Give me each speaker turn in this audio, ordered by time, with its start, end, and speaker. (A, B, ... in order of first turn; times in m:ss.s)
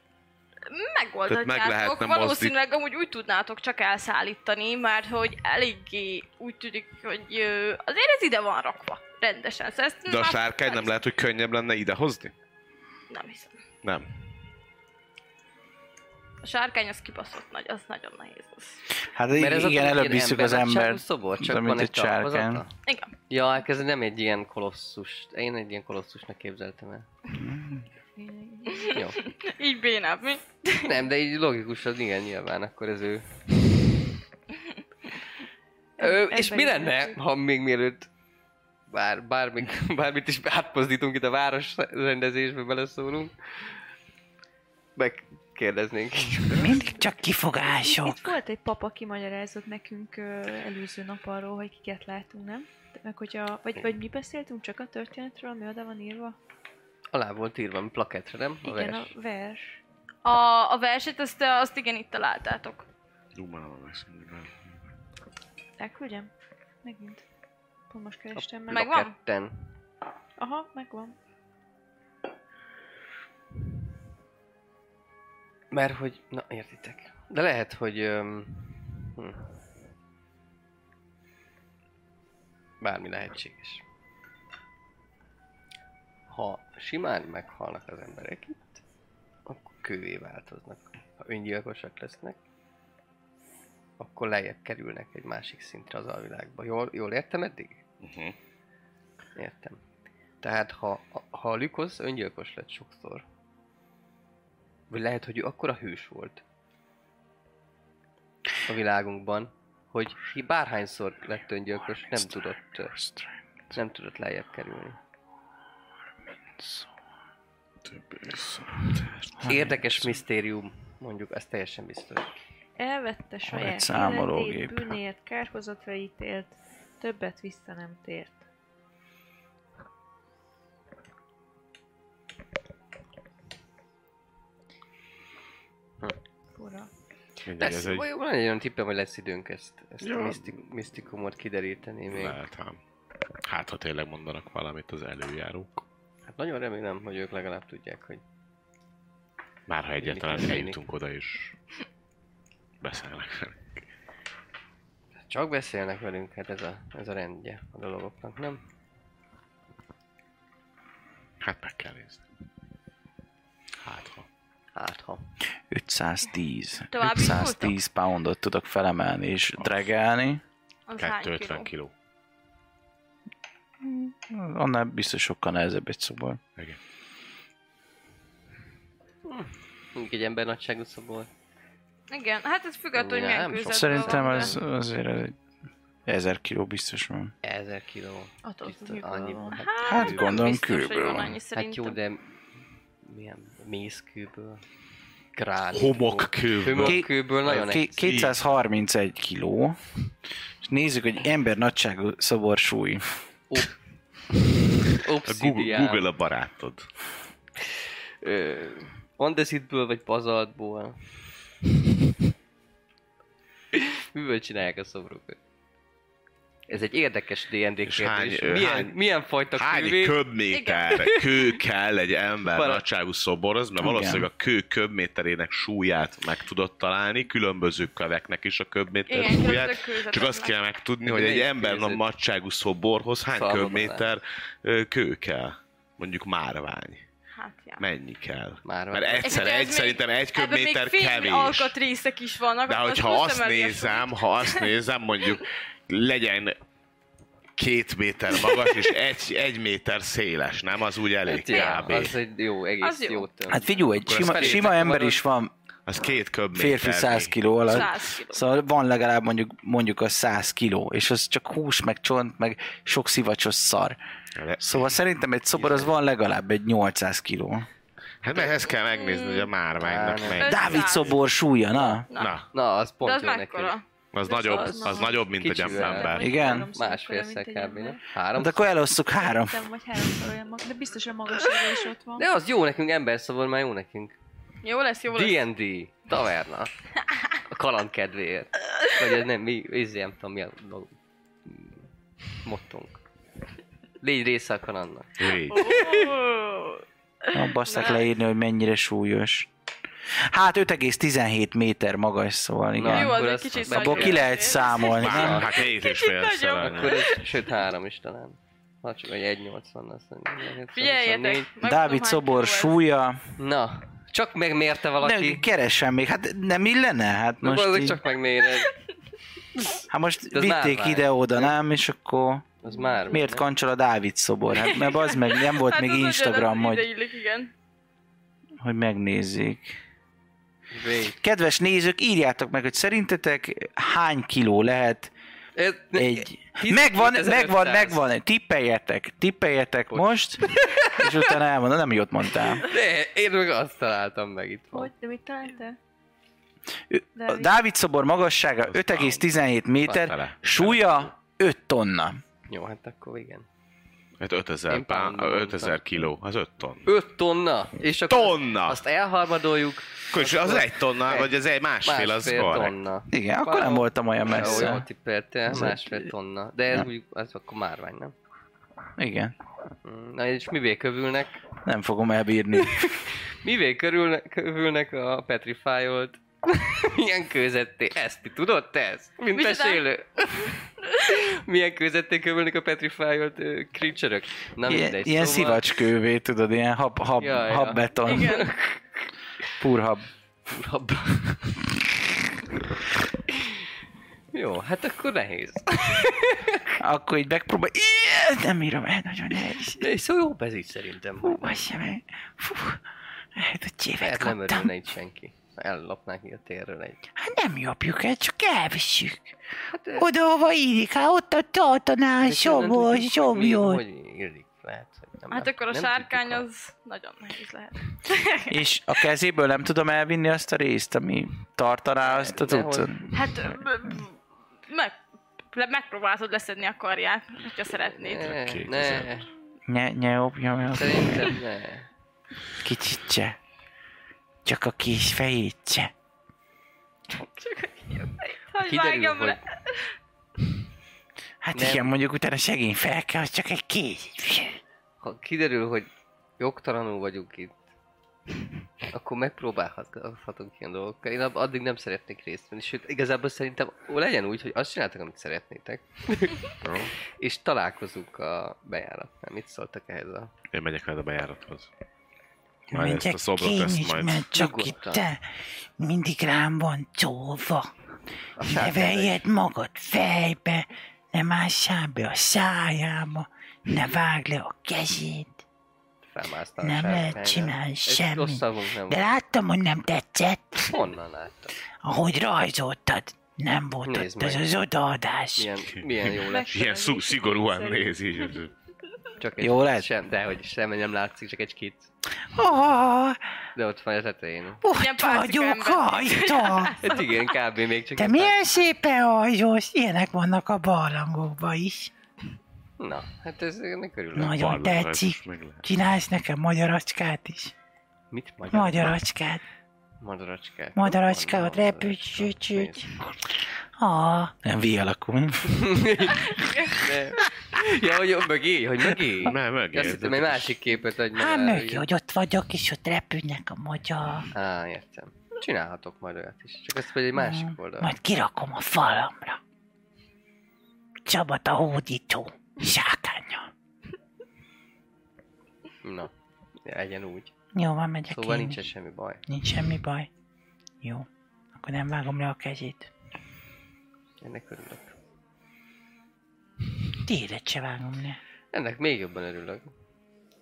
0:00.7-0:11.1 A
0:01.3-0:02.5 B
0:10.1-0:12.3 B
0:13.1-0:13.6 A
0:16.4-0:18.8 A
0:19.1-0:22.6 C
0:19.4-0:22.7 D
0:22.9-0:23.1 A
0:23.3-0:27.1 D
0:27.4-0:27.8 C
0:28.2-0:29.0 E
0:28.8-0:31.0 A
0:28.9-0:29.2 D
0:30.8-0:33.9 D
0:36.0-0:37.2 E
0:36.0-0:38.1 D
0:38.9-0:43.3 D
0:45.0-0:46.8 D
0:46.6-0:48.3 F
0:46.6-0:56.4 E
0:57.1-0:59.1 D
0:58.6-0:59.8 E
1:00.2-1:02.9 A
1:03.4-1:04.6 B
1:05.8-1:06.3 E
1:06.8-1:07.2 E
1:07.9-1:08.9 E
1:08.4-1:09.7 D
1:08.7-1:09.1 A
1:10.4-1:11.2 E
1:15.7-1:19.6 D
1:22.8-1:23.8 D
1:26.3-1:28.8 D
1:29.5-1:32.4 D
1:34.0-1:37.8 D
1:38.0-1:38.4 B
1:39.4-1:39.8 D
1:40.4-1:43.2 D
1:44.9-1:46.4 D
1:48.7-1:52.9 D
1:52.2-1:53.3 C
1:53.7-1:55.0 D
1:56.6-1:56.9 C
1:57.8-1:59.3 B
1:59.4-1:59.9 C
1:59.4-2:02.3 D
2:02.8-2:08.4 E
2:03.5-2:05.0 C
2:16.6-2:16.9 E
2:17.4-2:18.0 B
2:17.6-2:22.4 D
2:20.0-2:20.5 B
2:22.1-2:22.8 B
2:23.4-2:25.8 B
2:26.3-2:28.2 D
2:29.7-2:31.5 B
2:30.0-2:30.8 D
2:32.8-2:33.6 B
2:35.2-2:38.6 D
2:41.4-2:42.2 B
2:43.8-2:44.3 B
2:44.8-2:45.3 D
2:45.7-2:50.4 C
2:46.9-2:47.8 A
2:50.9-2:51.7 A
2:51.0-2:51.9 B
2:53.8-2:56.4 C
2:59.2-3:01.3 D
3:02.1-3:04.6 A
3:03.0-3:04.6 D
3:03.7-3:05.4 C
3:06.1-3:07.3 C
3:07.4-3:10.6 D
3:08.4-3:09.6 E
3:09.5-3:12.0 A
3:09.9-3:11.4 C
3:11.6-3:12.3 D
3:13.0-3:14.6 D
3:15.4-3:18.3 D
3:15.7-3:18.4 B
3:16.8-3:19.8 C
3:20.6-3:23.1 C
3:23.5-3:23.8 D
3:24.9-3:26.1 D
3:25.3-3:26.9 B
3:27.6-3:31.1 D
3:33.7-3:35.4 D
3:36.7-3:40.2 D
3:37.9-3:39.0 B
3:39.5-3:57.0 B
3:40.5-3:41.0 A
3:41.0-3:41.6 D
3:42.5-3:42.8 D
3:43.8-3:44.3 C
3:49.1-3:50.6 A
3:51.0-3:52.0 D
3:53.3-3:54.1 D
3:57.4-3:57.8 A
3:57.8-4:01.8 B
3:58.6-3:59.5 D
3:59.2-4:04.7 A
4:02.7-4:06.6 B
4:07.6-4:12.2 B
4:11.3-4:15.2 D
4:11.4-4:11.9 A
4:12.8-4:13.3 A
4:13.5-4:15.5 C
4:14.1-4:14.9 B
4:15.9-4:17.9 B
4:16.5-4:24.0 C
4:17.7-4:18.4 A
4:24.4-4:24.8 B
4:24.6-4:27.7 C
4:25.6-4:25.9 D
4:28.2-4:31.2 B
4:28.8-4:29.5 A
4:29.8-4:30.5 D
4:30.4-4:31.1 A
4:30.5-4:32.0 C
4:31.7-4:33.8 D
4:32.1-4:32.4 A
4:32.2-4:32.5 B
4:33.0-4:33.8 A
4:34.1-4:36.3 B
4:34.2-4:38.0 E
4:34.6-4:38.8 D
4:36.2-4:36.7 C
4:38.4-4:39.6 C
4:39.2-4:42.3 E
4:42.2-4:44.1 D
4:44.6-4:45.4 A
4:45.1-4:46.7 D
4:47.5-4:50.9 D
4:51.4-4:51.9 D
4:52.4-4:53.0 D
4:54.0-4:56.1 D
4:55.2-4:55.7 B
4:55.5-4:56.8 A
4:57.3-4:59.5 C
4:57.5-4:58.1 A
5:00.3-5:05.5 C
5:02.8-5:04.3 D
5:02.9-5:07.2 A
5:04.9-5:07.1 B
5:05.0-5:05.6 D
5:06.6-5:11.5 D
5:10.7-5:12.8 A
5:11.6-5:13.2 C
5:13.4-5:15.5 D
5:15.0-5:18.0 C
5:17.4-5:18.7 D
5:19.6-5:21.6 D
5:19.9-5:22.5 C
5:22.6-5:23.5 D
5:22.7-5:23.2 E
5:23.1-5:26.9 C
5:24.6-5:27.5 A
5:28.6-5:29.8 C
5:30.7-5:31.2 D
5:31.2-5:35.1 C
5:35.6-5:38.0 D
5:36.0-5:42.6 C
5:39.9-5:41.4 D
5:42.6-5:44.9 D
5:44.7-5:45.8 E
5:46.9-5:52.2 C
5:47.2-5:47.6 E
5:48.7-5:49.3 B
5:49.9-5:51.1 B
5:52.5-5:53.5 D
5:54.2-5:56.9 B
5:54.7-5:56.0 D
5:56.9-6:01.3 D
5:58.1-5:58.8 B
6:00.1-6:02.8 B
6:01.8-6:08.1 D
6:03.1-6:04.9 C
6:05.5-6:06.1 C
6:09.0-6:09.3 C
6:09.8-6:11.4 D
6:11.6-6:12.9 C
6:12.6-6:25.7 D
6:19.3-6:19.8 A
6:24.7-6:28.4 C
6:27.2-6:28.8 D
6:28.1-6:28.5 A
6:29.6-6:30.1 C
6:30.5-6:31.7 D
6:34.3-6:36.8 D
6:36.8-6:39.8 C
6:39.7-6:41.7 D
6:41.4-6:42.8 F
6:43.4-6:44.7 F
6:44.0-6:47.0 D
6:47.2-6:49.3 F
6:49.7-6:50.1 D
6:50.0-6:53.8 F
6:52.2-6:56.4 D
6:55.3-6:58.5 A
6:58.5-7:03.0 C
7:02.0-7:03.2 D
7:03.1-7:04.1 A
7:04.7-7:05.0 A
7:05.5-7:08.4 A
7:07.9-7:09.3 D
7:08.3-7:09.2 B
7:09.7-7:11.3 C
7:10.7-7:11.9 D
7:12.6-7:13.4 C
7:14.5-7:15.9 F
7:17.1-7:19.8 A
7:18.6-7:19.4 D
7:21.4-7:24.6 F
7:21.5-7:21.9 D
7:25.0-7:25.9 D
7:26.4-7:27.6 D
7:28.9-7:36.6 D
7:36.6-7:36.9 B
7:37.2-7:40.3 D
7:40.5-7:41.7 B
7:42.7-7:44.3 B
7:42.7-7:45.2 F
7:44.3-7:45.1 D
7:45.8-7:47.7 F
7:48.4-7:49.2 D
7:48.4-7:55.4 F
7:56.1-7:59.1 D
7:56.6-8:00.8 F
8:00.7-8:01.6 D
8:01.8-8:05.6 F
8:03.8-8:04.5 D
8:05.4-8:06.6 D
8:06.1-8:08.5 B
8:06.2-8:08.0 E
8:09.2-8:11.9 D
8:09.4-8:09.9 C
8:12.3-8:13.2 F
8:13.6-8:14.6 D
8:14.6-8:16.8 F
8:14.7-8:17.3 A
8:16.8-8:18.5 D
8:18.0-8:21.9 F
8:22.8-8:24.4 D
8:24.2-8:27.5 F
8:24.4-8:25.7 B
8:28.1-8:29.0 D
8:28.5-8:29.4 F
8:30.0-8:32.9 D
8:30.8-8:32.8 F
8:33.8-8:34.4 F
8:34.4-8:35.8 C
8:35.5-8:41.9 D
8:36.4-8:36.7 A
8:39.2-8:40.6 B
8:41.2-8:44.3 F
8:44.3-8:47.9 D
8:47.2-8:49.4 F
8:51.1-8:53.5 F
8:55.8-8:56.1 D
8:56.6-8:57.3 D
8:57.6-8:58.6 F
8:58.1-8:59.2 D
8:59.3-9:00.1 F
9:00.8-9:02.9 F
9:04.2-9:04.9 D
9:07.1-9:08.2 F
9:08.5-9:09.7 D